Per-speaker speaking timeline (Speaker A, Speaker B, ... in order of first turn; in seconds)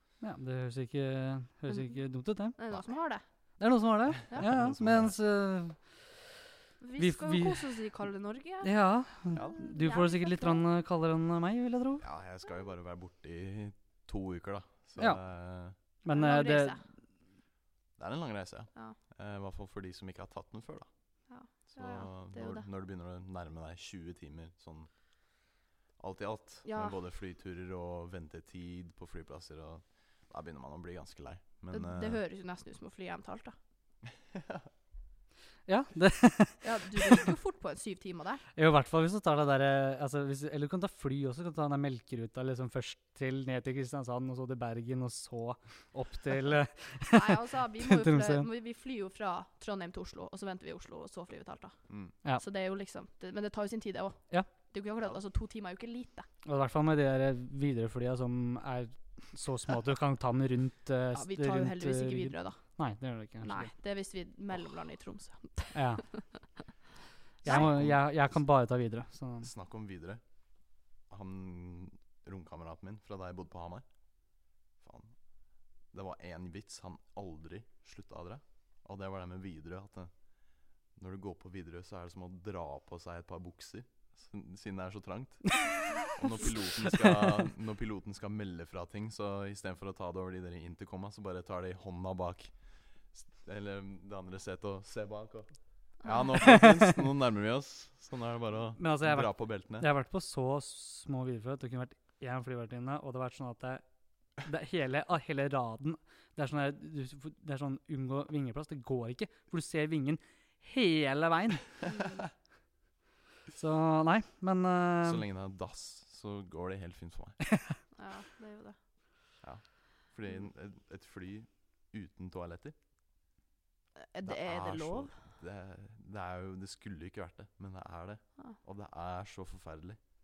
Speaker A: 0.2-2.9, 3.6-6.2, 7.0-7.9, 8.6-12.0, 15.0-16.9, 35.6-37.2, 38.5-48.5, 56.4-63.7, 65.7-66.5, 67.4-69.5, 85.7-86.2, 96.4-96.9, 98.8-111.8, 113.5-115.2
Speaker B: 1.7-3.6, 6.8-8.7, 9.4-10.6, 16.1-16.8, 21.3-22.6, 26.6-26.9, 31.7-33.5, 36.6-38.4, 47.1-56.3, 61.1-66.3, 67.4-67.7, 96.0-96.3, 111.8-112.3, 117.9-118.8, 124.0-125.1
Speaker C: 4.3-5.2, 12.0-15.7, 18.0-20.9, 21.5-25.5, 26.0-32.2, 51.9-52.1, 67.5-68.4, 69.4-70.2, 70.7-99.9, 115.0-117.5, 119.4-122.7, 124.2-130.0